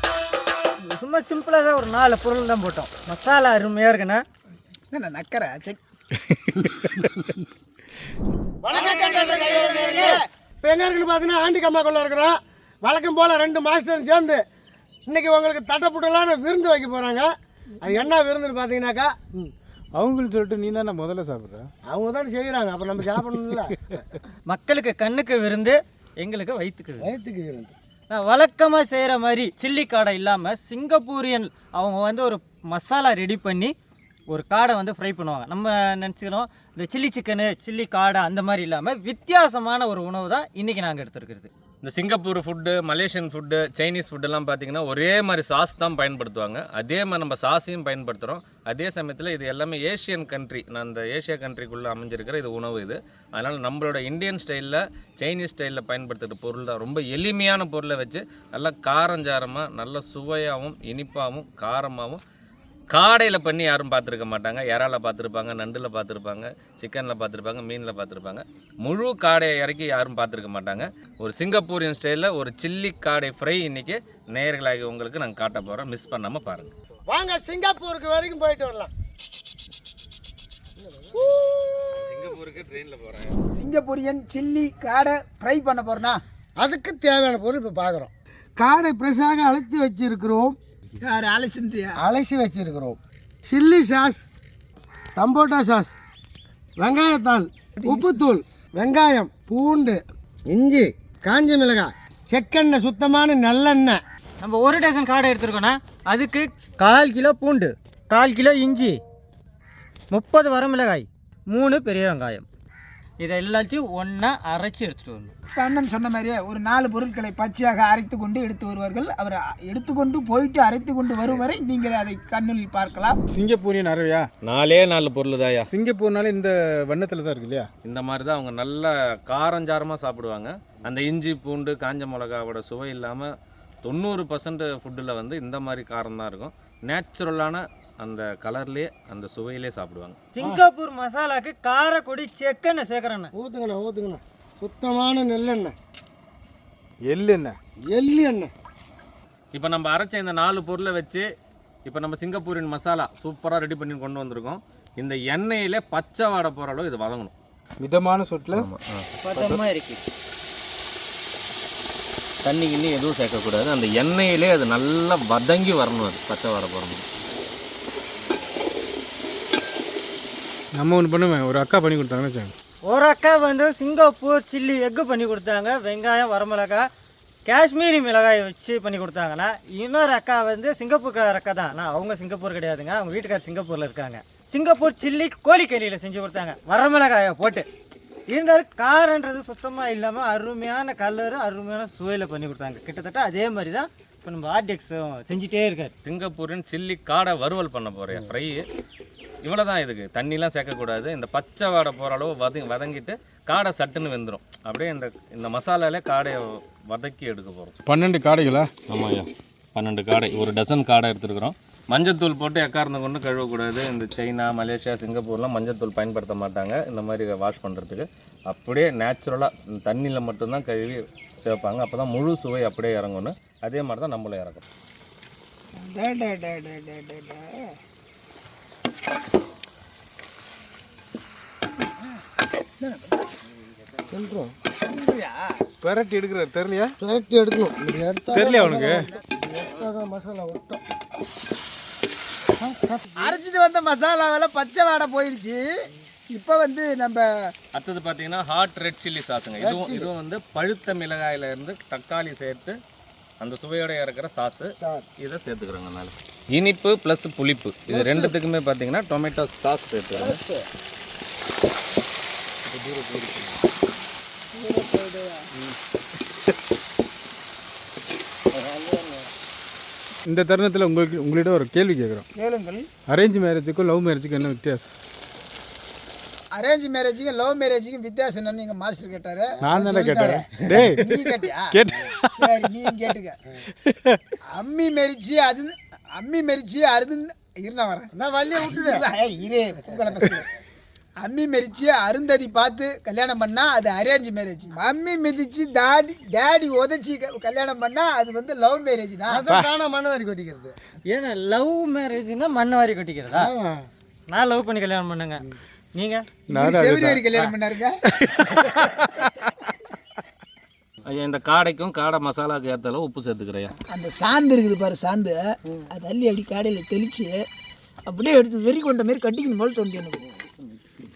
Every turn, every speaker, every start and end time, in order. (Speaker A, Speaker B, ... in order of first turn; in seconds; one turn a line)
Speaker A: 0.9-4.2
Speaker B: 4.9-5.8
Speaker B: 6.7-7.3
Speaker C: 8.6-14.4
Speaker B: 8.7-10.2
Speaker C: 15.1-17.3
Speaker C: 17.8-19.5
Speaker D: 19.9-21.7
Speaker C: 21.9-24.0
Speaker A: 24.5-27.1
Speaker C: 27.0-27.7
Speaker A: 28.1-33.7
Speaker A: 34.3-41.5
Speaker E: 41.8-62.2
Speaker E: 62.9-76.7
Speaker C: 77.1-78.9
Speaker C: 80.9-82.0
Speaker E: 82.0-83.4
Speaker B: 83.5-86.2
Speaker C: 86.6-90.5
Speaker B: 91.0-92.0
Speaker C: 92.0-94.2
Speaker C: 95.2-95.9
Speaker C: 96.8-104.0
Speaker B: 97.8-98.1
Speaker A: 104.4-109.0
Speaker A: 110.1-112.5
Speaker A: 113.2-115.3
Speaker B: 115.5-123.2
Speaker D: 123.3-124.2
Speaker E: 124.4-125.7
Speaker D: 125.6-127.7
Speaker E: 127.8-133.3
Speaker E: 133.8-140.2
Speaker A: 140.3-143.3
Speaker C: 143.3-145.7
Speaker D: 147.1-147.6
Speaker C: 147.9-148.5
Speaker E: 149.5-151.2
Speaker E: 151.8-157.3
Speaker D: 157.8-158.7
Speaker E: 158.5-159.6
Speaker A: 159.2-160.0
Speaker E: 162.4-167.0
Speaker D: 170.7-172.5
Speaker A: 172.9-176.8
Speaker A: 177.4-187.7
Speaker A: 188.3-195.9
Speaker E: 196.0-198.6
Speaker E: 199.4-207.7
Speaker D: 207.9-208.7
Speaker E: 208.9-224.6
Speaker B: 225.8-227.7
Speaker B: 232.8-233.2
Speaker C: 234.1-234.5
Speaker B: 234.9-235.5
Speaker D: 235.8-236.9
Speaker C: 237.0-240.8
Speaker D: 238.3-239.0
Speaker C: 242.6-243.4
Speaker B: 243.2-245.6
Speaker B: 246.3-247.5
Speaker E: 247.7-252.8
Speaker C: 249.6-250.1
Speaker E: 253.4-260.4
Speaker C: 254.8-255.1
Speaker D: 262.6-263.6
Speaker B: 264.5-265.4
Speaker D: 270.3-272.2
Speaker B: 272.4-272.8
Speaker D: 273.1-274.9
Speaker B: 276.5-279.9
Speaker D: 279.6-282.4
Speaker C: 279.9-280.6
Speaker B: 280.8-281.8
Speaker B: 282.3-283.4
Speaker D: 283.8-284.2
Speaker B: 284.5-288.1
Speaker C: 288.1-289.0
Speaker B: 288.6-290.5
Speaker B: 291.2-299.4
Speaker C: 299.3-300.7
Speaker A: 301.1-303.5
Speaker C: 303.3-303.9
Speaker A: 304.3-306.3
Speaker D: 306.5-307.3
Speaker B: 306.5-308.0
Speaker D: 308.1-309.1
Speaker E: 311.1-313.7
Speaker B: 313.9-315.4
Speaker B: 315.9-317.4
Speaker B: 318.1-320.2